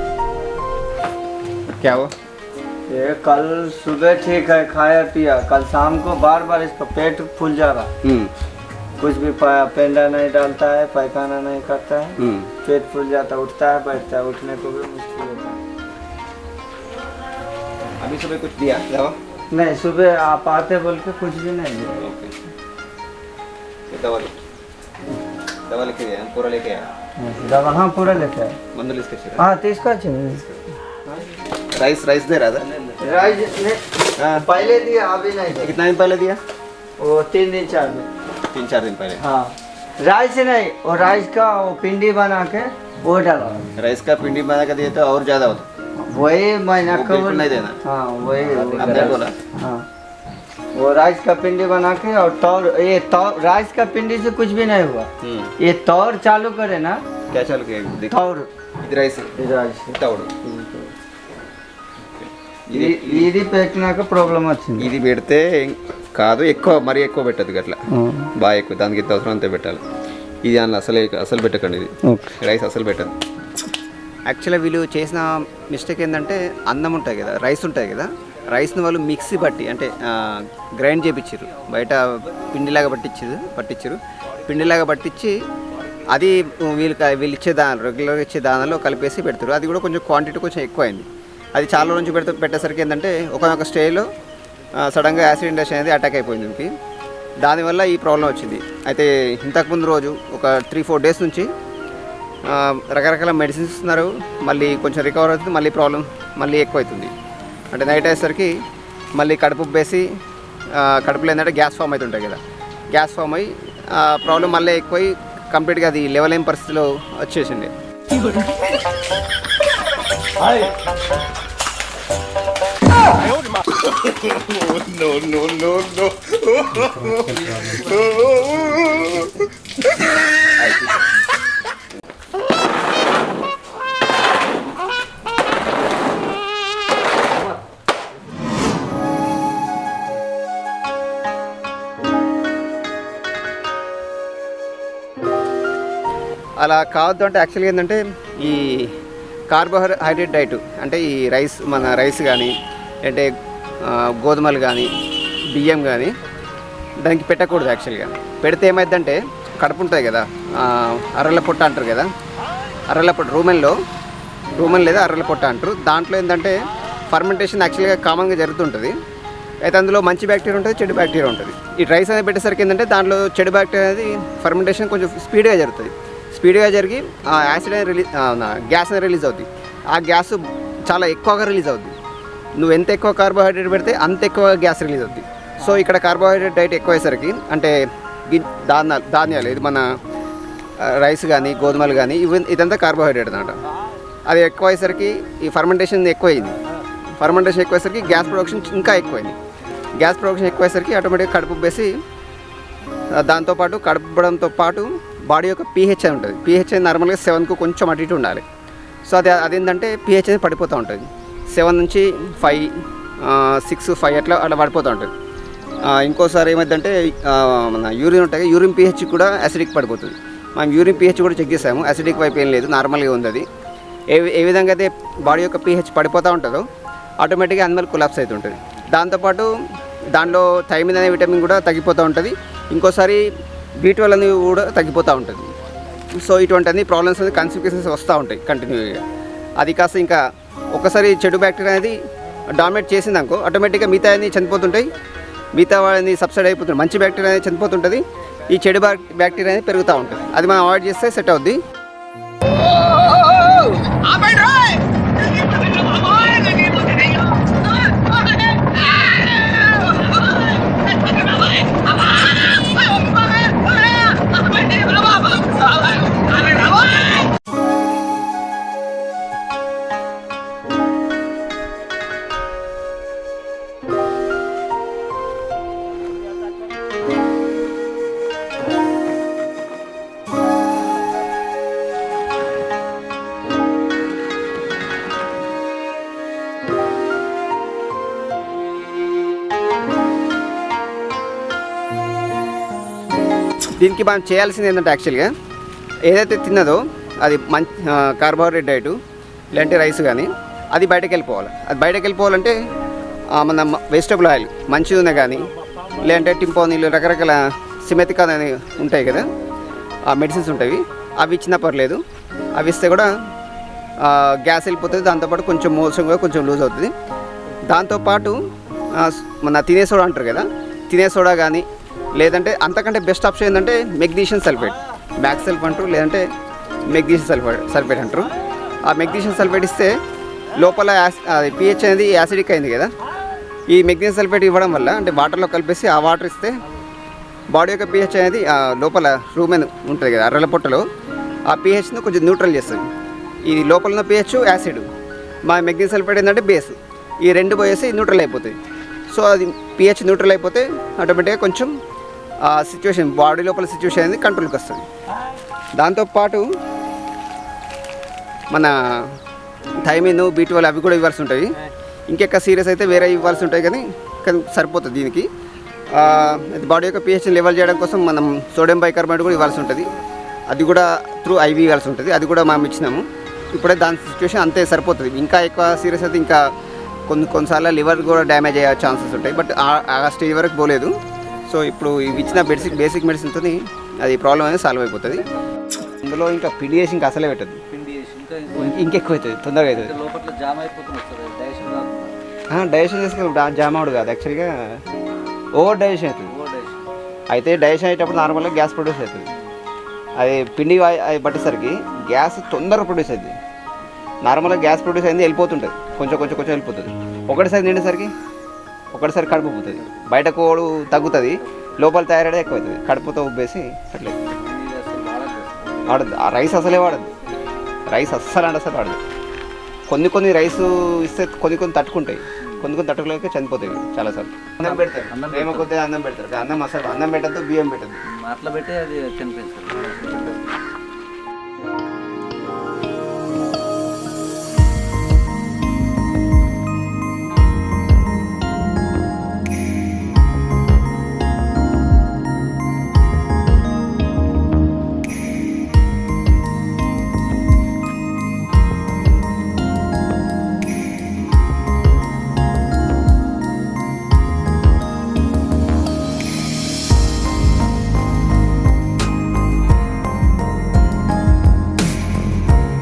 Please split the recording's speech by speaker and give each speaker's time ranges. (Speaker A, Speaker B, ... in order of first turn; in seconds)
Speaker A: 1.8-2.1, 8.0-8.3, 12.2-12.5, 18.0-19.1, 22.0-22.3, 23.9-24.3, 25.7-26.9, 28.7-29.4, 31.7-32.7, 34.2-34.5, 35.6-36.4, 38.5-39.2, 43.8-45.6, 46.9-47.8, 48.8-49.3, 55.2-55.5, 57.3-58.1, 58.8-59.3, 59.9-60.3, 62.2-63.3, 64.8-69.8, 70.4-73.1, 74.3-85.4, 86.1-94.0, 94.8-96.7, 97.4-101.5, 102.5-107.1, 107.7-108.5, 109.2-110.1, 110.7-112.4, 112.9-117.7, 124.8-126.1, 146.6-148.9, 149.5-153.3, 153.8-154.9, 155.5-156.1, 157.0-162.1, 162.9-163.8, 164.6-168.9, 169.6-181.9, 182.6-189.8, 190.8-193.6, 194.3-196.6, 197.2-199.4, 200.0-201.9, 203.1-208.4, 209.1-215.1, 215.8-223.4, 224.1-226.6, 227.2-229.5, 230.1-233.2, 233.8-235.5, 236.2-239.0, 239.6-240.2, 240.7-242.0, 242.5-244.9, 245.5-251.6, 293.8-295.3, 296.1-299.0, 299.5-302.6, 303.3-309.3, 310.1-312.0, 312.6-313.1, 314.0-316.9, 317.7-318.4, 318.9-321.6, 322.2-326.2, 326.9-328.3, 328.9-329.9, 330.5-332.9, 333.7-336.6, 337.5-340.8, 341.5-342.8, 343.4-344.9, 345.4-348.6, 349.1-351.7, 352.4-354.9, 355.8-356.5, 358.5-359.1, 359.8-361.6, 362.1-365.3, 365.9-369.9, 370.5-376.4, 377.1-380.9, 381.4-387.6, 388.6-389.9, 392.5-394.8, 395.6-396.3, 397.3-399.3, 400.2-403.4, 404.2-408.1, 408.9-414.2, 415.8-417.1, 417.9-419.0, 419.9-428.0
Speaker B: 2.9-7.9, 9.0-15.6, 19.5-22.0, 27.2-28.6, 29.4-30.4, 33.0-33.8, 34.3-35.7, 37.0-38.1, 39.2-43.6, 46.1-49.9, 50.7-57.0, 58.1-58.5, 59.4-60.9, 62.7-64.9, 67.9-68.3
Speaker C: 32.7-33.2, 48.4-49.1, 126.9-128.0, 254.2-254.7, 255.9-256.9, 264.7-265.2, 266.4-266.8, 387.7-388.9, 389.7-392.1, 396.3-397.0, 414.3-416.0, 424.6-425.7, 428.1-430.3